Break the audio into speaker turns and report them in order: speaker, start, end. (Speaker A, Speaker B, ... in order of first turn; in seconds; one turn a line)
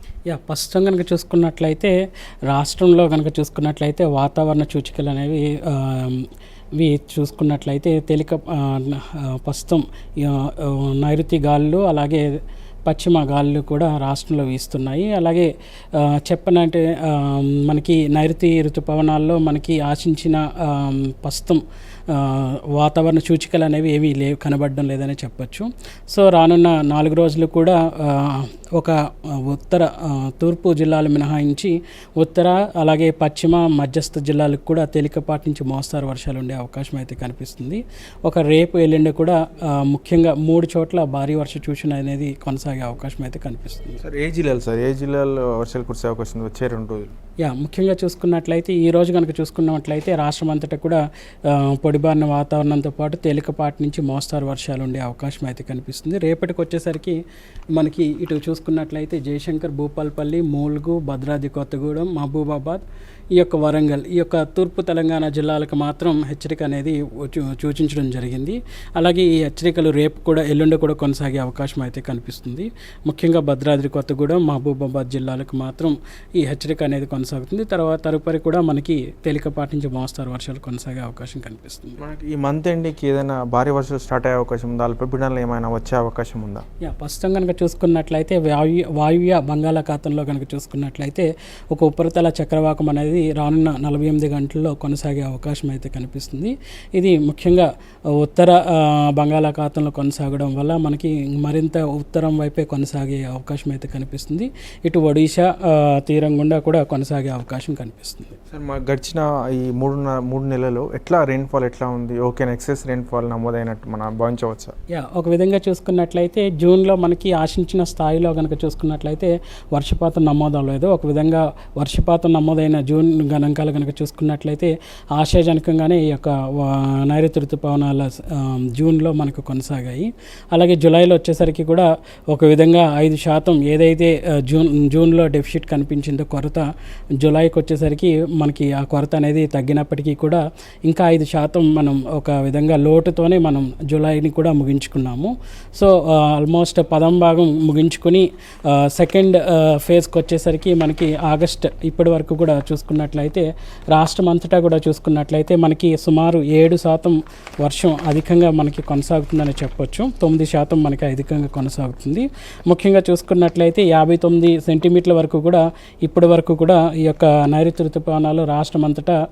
Speaker A: 0.3-1.9
Speaker A: 2.5-12.2
Speaker A: 12.9-44.0
Speaker B: 44.0-47.1
Speaker A: 47.4-57.2
Speaker A: 57.7-82.0
Speaker B: 82.0-86.6
Speaker A: 86.8-108.4
Speaker B: 108.5-114.7
Speaker A: 114.9-136.6
Speaker A: 137.2-169.2